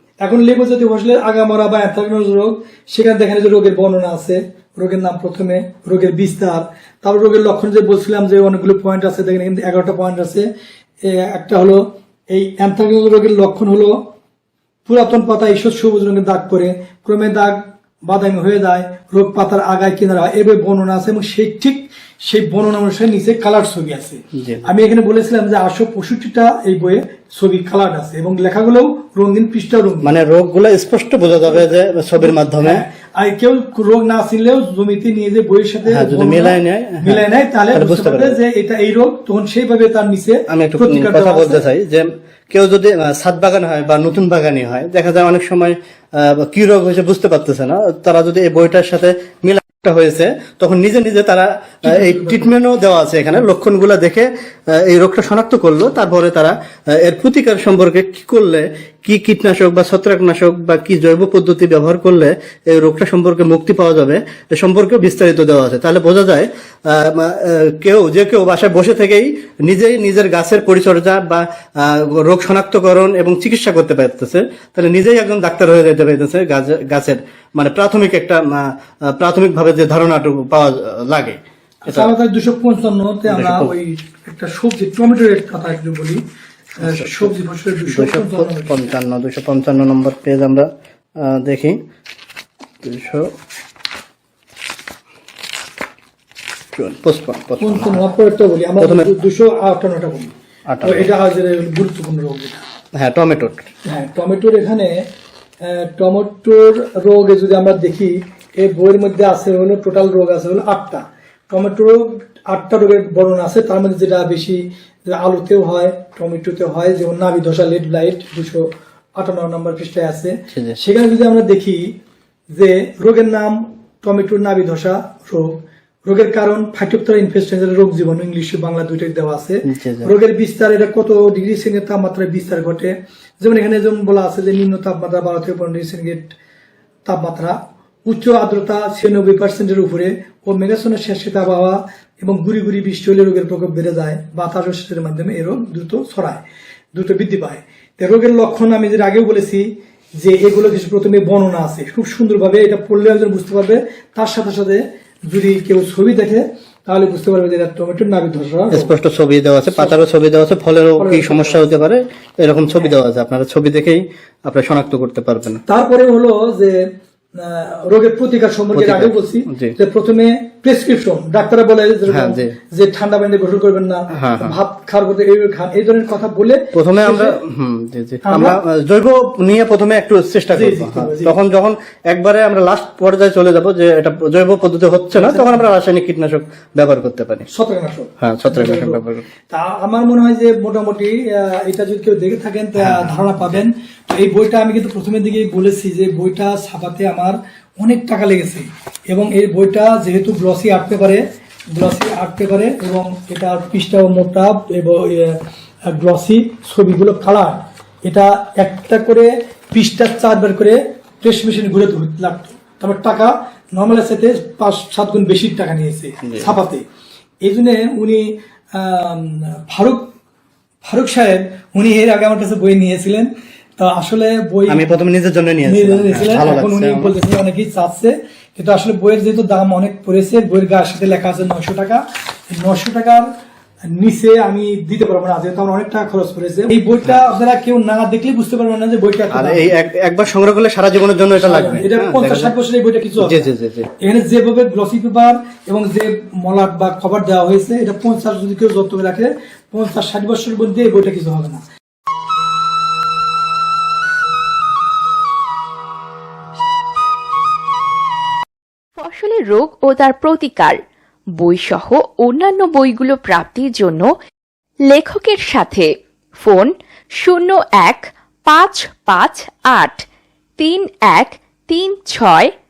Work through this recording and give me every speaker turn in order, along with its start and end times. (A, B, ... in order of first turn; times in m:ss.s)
0:00.2-0:10.5 A
0:11.0-0:14.0 A
0:14.9-0:30.1 A
0:24.4-0:24.7 B
0:30.0-0:32.9 B
0:32.2-0:41.6 A
0:35.9-0:38.4 B
0:40.5-1:22.1 B
0:52.0-0:52.5 A
1:21.9-1:26.2 A
1:23.3-1:23.7 B
1:26.8-1:27.3 B
1:26.8-1:28.7 A
1:27.9-1:30.7 B
1:31.2-1:31.8 B
1:32.8-1:33.3 B
1:36.8-1:38.0 B
1:37.6-1:40.3 A
1:38.8-1:39.1 B
1:40.7-1:41.1 B
1:40.8-1:42.6 A
1:42.9-1:43.7 B
1:43.9-1:45.1 A
1:45.6-2:02.0 A
2:00.5-2:00.8 B
2:02.5-2:16.4 A
2:09.6-2:10.1 B
2:17.1-2:26.4 A
2:26.9-2:38.9 A
2:38.7-2:45.6 B
2:39.8-2:40.0 A
2:41.0-2:41.7 A
2:45.7-2:46.8 A
2:47.4-2:57.3 A
2:48.8-2:49.8 B
2:52.1-2:52.5 B
2:54.2-2:54.6 B
2:56.7-3:07.5 B
2:58.3-2:58.6 A
3:00.5-3:01.3 A
3:05.2-3:05.6 A
3:07.5-3:21.2 A
3:08.2-3:09.2 B
3:12.8-3:13.6 B
3:21.8-3:36.8 A
3:36.2-3:36.6 B
3:37.4-3:40.1 A
3:40.8-3:44.8 A
3:44.7-3:47.2 B
3:45.7-3:52.0 A
3:52.6-3:53.3 A
3:54.0-3:59.7 A
3:59.3-4:02.5 B
4:01.4-4:03.5 A
4:03.2-4:03.9 B
4:04.0-4:11.6 A
4:19.0-4:20.8 C
4:21.4-4:24.1 C
4:24.9-4:30.0 C
4:30.6-4:32.5 C